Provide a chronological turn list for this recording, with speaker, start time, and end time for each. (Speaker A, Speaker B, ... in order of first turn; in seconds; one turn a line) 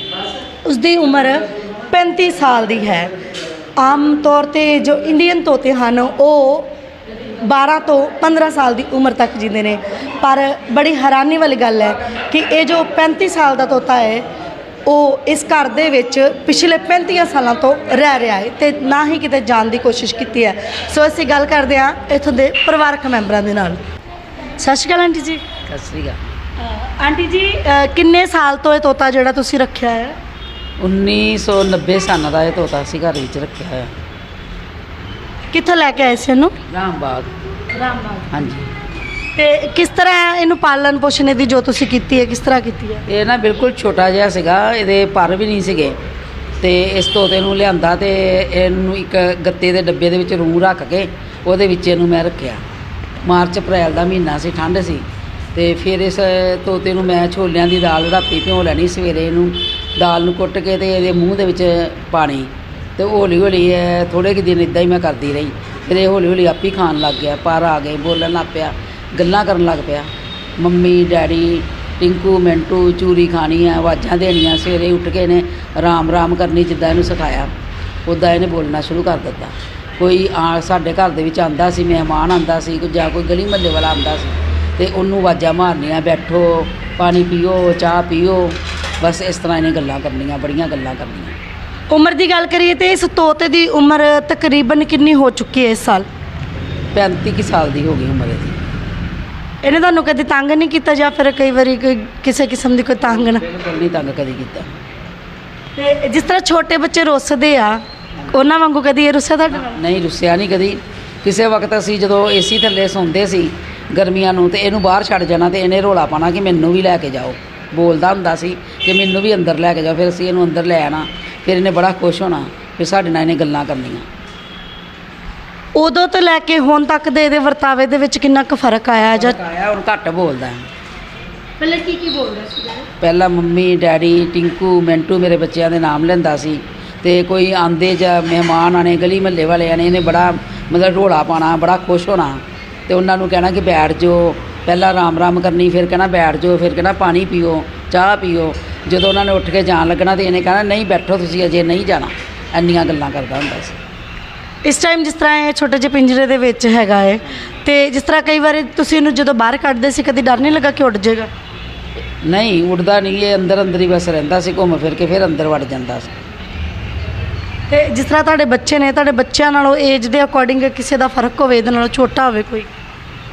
Speaker A: 0.6-3.1
Speaker A: 3.8-6.7
Speaker A: 7.4-14.2
Speaker A: 14.9-23.8
Speaker A: 24.6-25.4
Speaker B: 25.7-26.2
Speaker A: 26.6-30.1
Speaker B: 30.8-33.9
Speaker A: 35.5-36.5
Speaker B: 36.6-37.3
Speaker A: 37.8-38.3
Speaker B: 38.3-38.7
Speaker A: 39.3-43.0
Speaker B: 43.1-46.0
Speaker B: 46.6-52.6
Speaker B: 53.2-77.5
Speaker B: 78.1-91.3
Speaker A: 91.9-96.0
Speaker B: 96.9-98.6
Speaker A: 99.6-103.4
Speaker B: 103.4-104.7
Speaker A: 105.8-109.8
Speaker B: 109.7-124.0
Speaker A: 125.8-129.4
Speaker B: 129.1-130.7
Speaker A: 131.6-132.9
Speaker B: 133.0-153.8
Speaker A: 154.6-161.3
Speaker B: 162.2-166.1
Speaker A: 167.7-172.7